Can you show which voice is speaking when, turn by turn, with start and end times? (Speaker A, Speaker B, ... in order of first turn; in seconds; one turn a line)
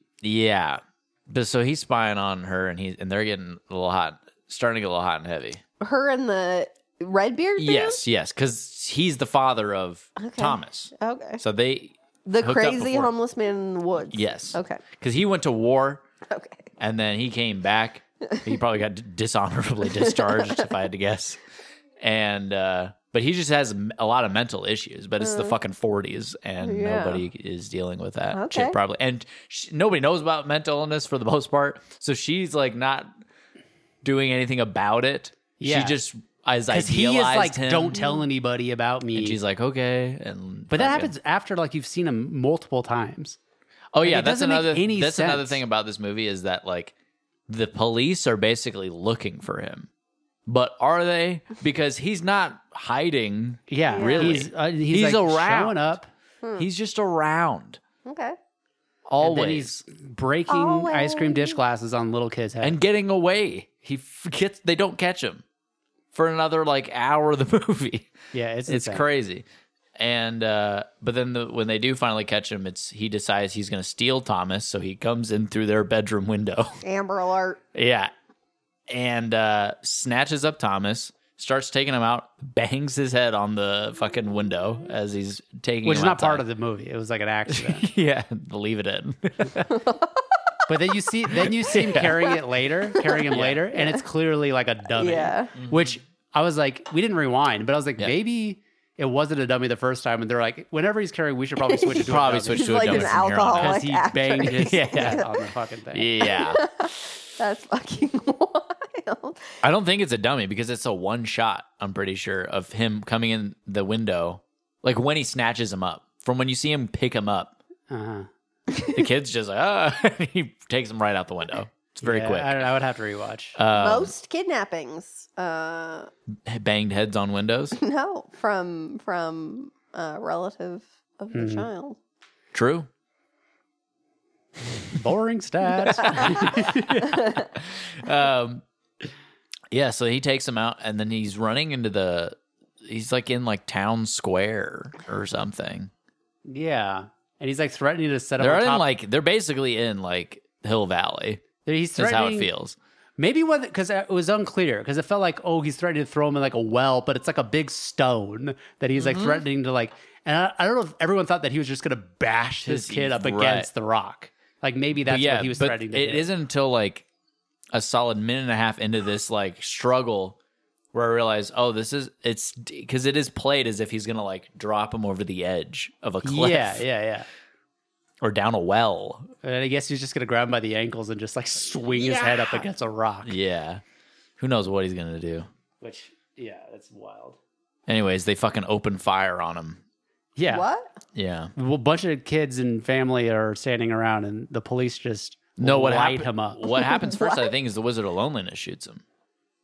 Speaker A: 0.2-5.6
Speaker B: 5.8-8.0
Speaker A: 7.6-13.1
Speaker B: 10.2-11.4
Speaker B: 12.3-14.8
Speaker A: 14.1-16.0
Speaker B: 16.3-16.7
Speaker A: 16.8-21.4
Speaker B: 19.9-20.7
Speaker A: 22.0-33.1
Speaker B: 25.2-25.6
Speaker B: 26.6-27.2
Speaker B: 28.3-28.8
Speaker A: 34.0-38.0
Speaker C: 35.6-36.0
Speaker C: 36.7-39.4
Speaker A: 39.1-41.1
Speaker C: 40.7-43.4
Speaker A: 43.9-46.9
Speaker C: 44.0-45.6
Speaker A: 47.5-49.9
Speaker A: 50.5-56.0
Speaker C: 53.7-56.1
Speaker B: 53.9-54.4
Speaker B: 56.4-56.7
Speaker A: 56.6-57.8
Speaker B: 58.0-58.4
Speaker A: 59.1-59.8
Speaker C: 59.2-62.8
Speaker B: 60.5-61.6
Speaker A: 62.6-65.4
Speaker A: 66.1-68.1
Speaker C: 68.3-69.0
Speaker A: 68.7-69.5
Speaker A: 70.0-76.8
Speaker B: 76.8-77.6
Speaker A: 77.7-78.1
Speaker A: 78.9-86.4
Speaker C: 85.8-87.9
Speaker A: 87.5-89.8
Speaker B: 89.7-90.2
Speaker C: 90.7-106.2
Speaker A: 91.3-92.3
Speaker A: 93.3-93.6
Speaker B: 93.7-94.0
Speaker B: 95.0-95.5
Speaker A: 95.6-95.9
Speaker B: 101.7-105.3
Speaker A: 101.9-105.3
Speaker A: 105.9-106.7
Speaker B: 106.2-109.6
Speaker A: 109.6-117.5
Speaker C: 117.9-118.3
Speaker A: 118.9-122.7
Speaker C: 122.0-123.6
Speaker A: 123.6-124.1
Speaker B: 123.7-126.1
Speaker A: 126.5-127.8
Speaker B: 127.8-132.0
Speaker C: 131.3-131.7
Speaker A: 132.5-132.9
Speaker C: 134.9-137.2
Speaker A: 136.0-138.6
Speaker B: 137.1-137.4
Speaker A: 139.7-145.9
Speaker C: 146.5-148.8
Speaker A: 148.4-151.4
Speaker C: 151.7-152.5
Speaker A: 152.0-152.8
Speaker C: 153.2-166.3
Speaker A: 159.0-159.4
Speaker A: 162.7-163.7
Speaker A: 165.1-167.1
Speaker A: 167.7-170.4
Speaker A: 170.9-176.8
Speaker C: 176.2-177.3
Speaker A: 178.2-179.3
Speaker C: 179.4-183.3
Speaker A: 183.2-183.8
Speaker A: 184.4-185.5
Speaker C: 185.8-187.4
Speaker A: 187.9-189.8
Speaker C: 190.4-190.7
Speaker B: 190.5-190.9
Speaker A: 191.2-191.5
Speaker C: 191.6-196.6
Speaker A: 195.6-199.0
Speaker B: 196.7-197.5